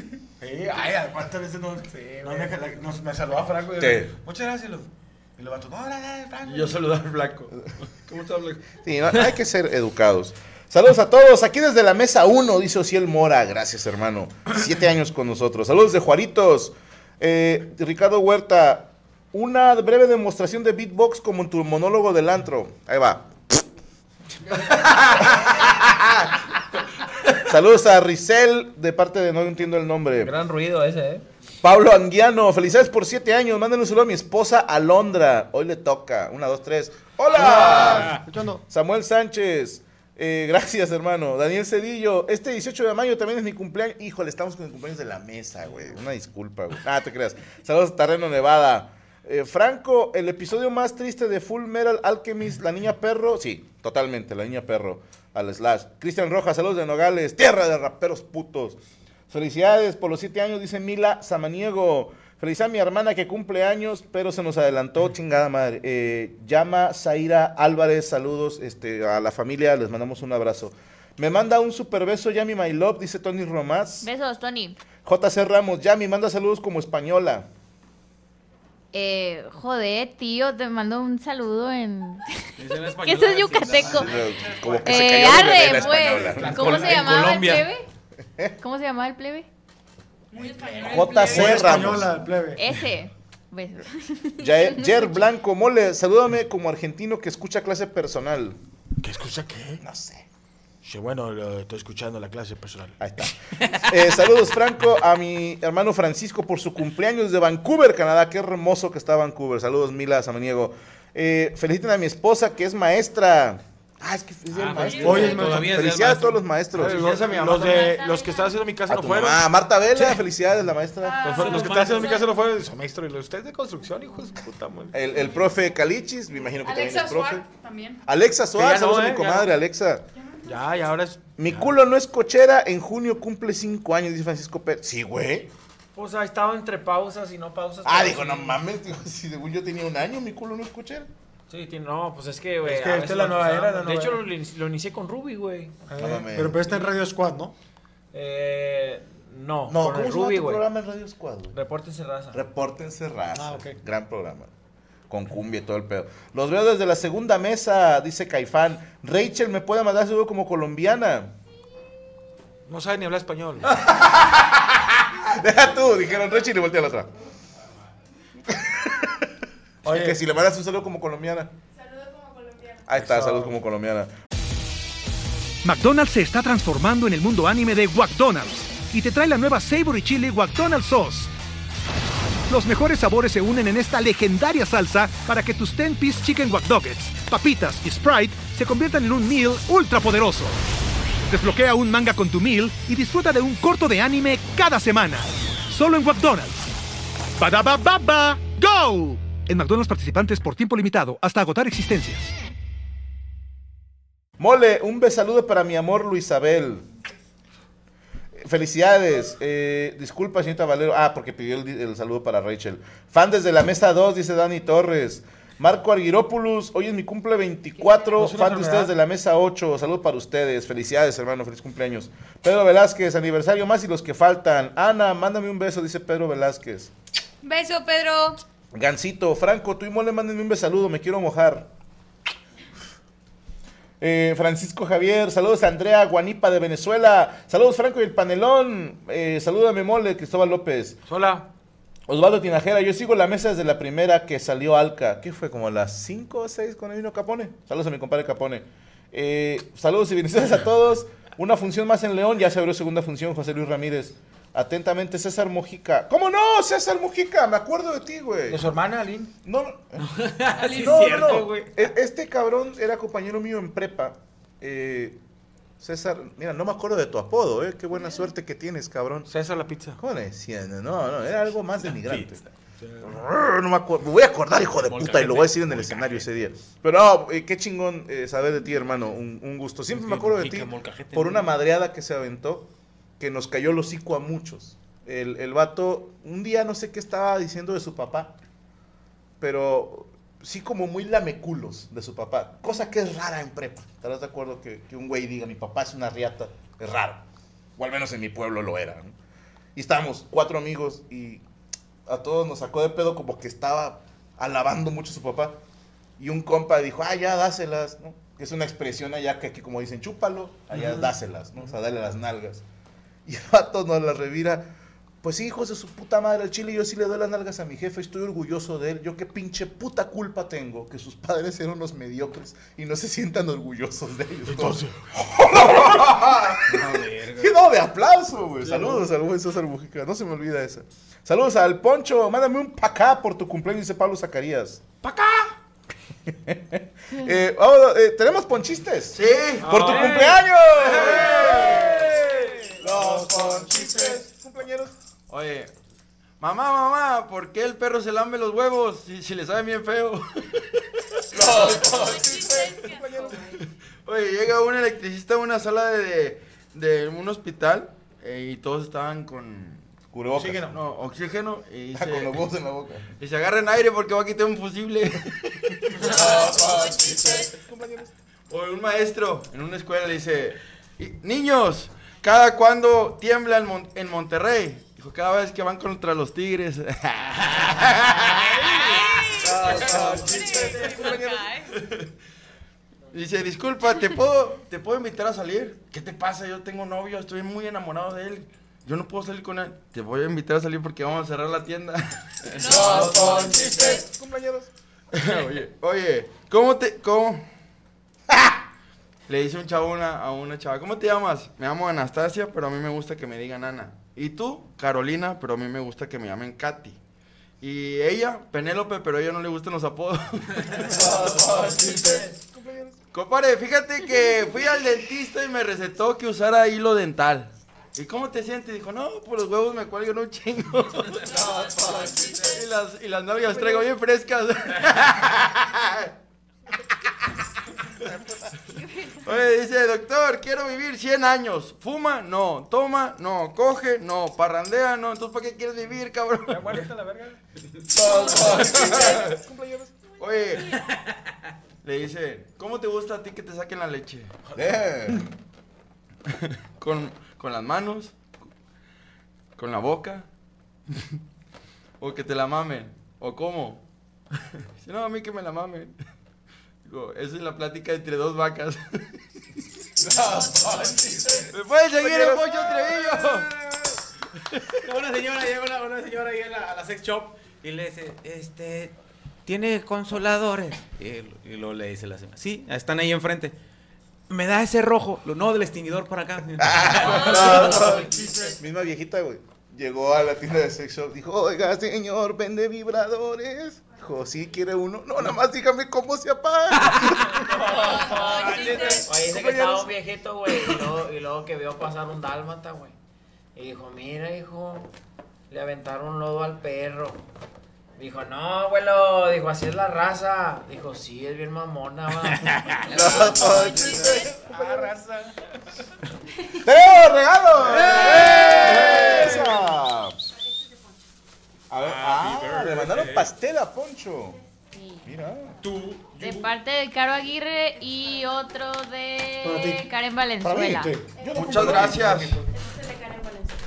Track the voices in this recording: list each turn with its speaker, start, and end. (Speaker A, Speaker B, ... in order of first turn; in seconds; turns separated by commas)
Speaker A: 0.4-6.8, Speaker B: 1.9-2.5, Speaker C: 3.8-4.1, Speaker D: 6.4-7.5, Speaker D: 8.0-8.8, Speaker C: 8.8-23.6, Speaker C: 24.9-26.1, Speaker C: 27.4-30.3, Speaker B: 30.2-31.2, Speaker C: 31.6-38.1, Speaker A: 37.4-38.3, Speaker E: 37.9-38.2, Speaker C: 38.7-74.1, Speaker F: 74.0-74.8, Speaker C: 75.0-77.5, Speaker F: 78.9-84.1, Speaker E: 82.6-84.2, Speaker A: 83.9-85.6, Speaker C: 83.9-86.6, Speaker F: 84.8-87.8, Speaker A: 86.1-87.2, Speaker E: 86.4-87.7, Speaker F: 88.6-89.5, Speaker G: 90.3-91.7, Speaker A: 90.5-91.8, Speaker C: 90.8-92.1, Speaker H: 91.2-92.7, Speaker F: 92.6-95.2, Speaker C: 94.4-98.6, Speaker A: 99.0-99.8, Speaker C: 99.8-100.3, Speaker A: 100.8-103.0, Speaker C: 103.0-117.1, Speaker B: 114.7-115.1, Speaker E: 114.8-116.4, Speaker G: 114.8-115.2, Speaker A: 114.8-115.7, Speaker A: 116.7-119.4, Speaker D: 116.8-118.0, Speaker F: 117.5-118.5, Speaker C: 118.9-121.3, Speaker G: 121.0-122.3, Speaker A: 121.2-124.9, Speaker E: 121.3-122.1, Speaker C: 124.9-127.5, Speaker G: 126.6-128.0, Speaker C: 128.1-130.0, Speaker A: 128.6-129.5, Speaker A: 130.4-131.2, Speaker C: 131.4-135.5, Speaker B: 135.9-138.6, Speaker C: 137.8-141.1, Speaker B: 141.5-145.8, Speaker A: 142.7-144.1, Speaker H: 142.7-144.2, Speaker H: 145.9-147.5, Speaker C: 146.0-146.8, Speaker B: 146.6-146.9, Speaker B: 148.1-150.6, Speaker C: 149.7-151.6, Speaker B: 151.5-152.4, Speaker C: 152.3-154.5, Speaker H: 153.3-153.8, Speaker C: 155.1-161.3, Speaker A: 162.7-163.7, Speaker C: 163.9-167.1, Speaker C: 168.5-169.3, Speaker C: 169.8-171.5, Speaker A: 169.9-170.2, Speaker C: 172.9-174.1, Speaker A: 173.0-173.5, Speaker I: 175.6-181.3, Speaker I: 182.5-190.6, Speaker I: 191.3-196.7, Speaker I: 197.4-202.3, Speaker C: 204.4-206.9, Speaker C: 208.4-226.9, Speaker A: 218.2-218.9, Speaker G: 227.4-228.4, Speaker C: 228.7-231.7, Speaker C: 234.0-241.0, Speaker A: 241.1-241.5, Speaker C: 242.1-258.7, Speaker A: 258.5-259.3, Speaker C: 259.4-265.2, Speaker E: 260.0-261.6, Speaker G: 260.6-261.3, Speaker C: 265.8-269.3, Speaker A: 269.3-270.0, Speaker C: 270.0-272.4, Speaker E: 271.8-272.4, Speaker A: 272.8-273.1, Speaker C: 273.0-288.3, Speaker E: 274.7-276.3, Speaker E: 279.9-281.5, Speaker C: 289.4-297.2, Speaker C: 297.8-299.1, Speaker C: 299.8-301.4, Speaker C: 302.1-305.6, Speaker C: 306.2-312.6, Speaker C: 313.3-334.9, Speaker A: 324.5-324.9, Speaker E: 326.7-327.5, Speaker A: 328.6-328.9, Speaker C: 336.3-344.9, Speaker D: 339.1-339.7, Speaker B: 339.7-340.3, Speaker A: 339.7-340.3, Speaker D: 341.1-342.1, Speaker A: 341.5-341.7, Speaker D: 343.2-343.6, Speaker D: 345.3-345.7, Speaker D: 346.4-350.6, Speaker D: 351.3-352.6, Speaker C: 351.3-353.6, Speaker G: 351.9-353.6, Speaker D: 353.6-359.9, Speaker C: 360.1-360.8, Speaker A: 360.4-360.8, Speaker D: 360.6-362.4, Speaker C: 361.9-363.1, Speaker D: 363.2-366.6, Speaker C: 366.0-368.1, Speaker G: 366.1-367.5, Speaker D: 368.5-382.0, Speaker G: 378.5-381.7, Speaker C: 379.4-381.5, Speaker D: 383.1-394.0, Speaker G: 392.5-394.1, Speaker C: 392.6-394.7, Speaker D: 395.1-397.5, Speaker D: 399.3-407.0, Speaker D: 407.6-411.6, Speaker C: 411.1-413.0, Speaker A: 411.6-412.0, Speaker H: 411.8-412.2, Speaker D: 413.1-426.1, Speaker C: 421.3-421.8, Speaker F: 428.7-429.2, Speaker D: 429.2-436.8, Speaker A: 436.5-437.4, Speaker C: 437.9-439.9, Speaker D: 437.9-439.4, Speaker D: 440.2-440.8, Speaker D: 441.8-444.4, Speaker C: 444.6-445.3, Speaker D: 446.3-448.2, Speaker D: 449.6-450.3, Speaker D: 452.0-453.8, Speaker D: 454.8-456.0, Speaker D: 456.9-459.2, Speaker C: 460.0-462.7, Speaker E: 461.0-461.4, Speaker D: 461.5-463.5, Speaker E: 464.7-468.9, Speaker E: 469.5-473.5, Speaker E: 474.3-478.1, Speaker C: 476.6-487.4, Speaker E: 486.8-487.3, Speaker B: 487.6-493.0, Speaker G: 487.6-489.2, Speaker A: 488.7-489.0, Speaker B: 493.6-494.9, Speaker B: 495.5-497.2, Speaker B: 498.0-502.7, Speaker G: 502.9-504.3, Speaker C: 502.9-504.6, Speaker A: 504.4-505.2, Speaker C: 506.6-510.2, Speaker A: 508.0-509.4, Speaker C: 511.7-514.4, Speaker E: 511.8-513.3, Speaker F: 514.7-515.0, Speaker C: 515.0-515.6, Speaker A: 515.6-516.5, Speaker F: 516.2-521.0, Speaker H: 519.4-519.9, Speaker C: 520.4-522.3, Speaker H: 520.5-521.2, Speaker D: 521.3-522.4, Speaker A: 521.6-522.4, Speaker G: 522.7-523.2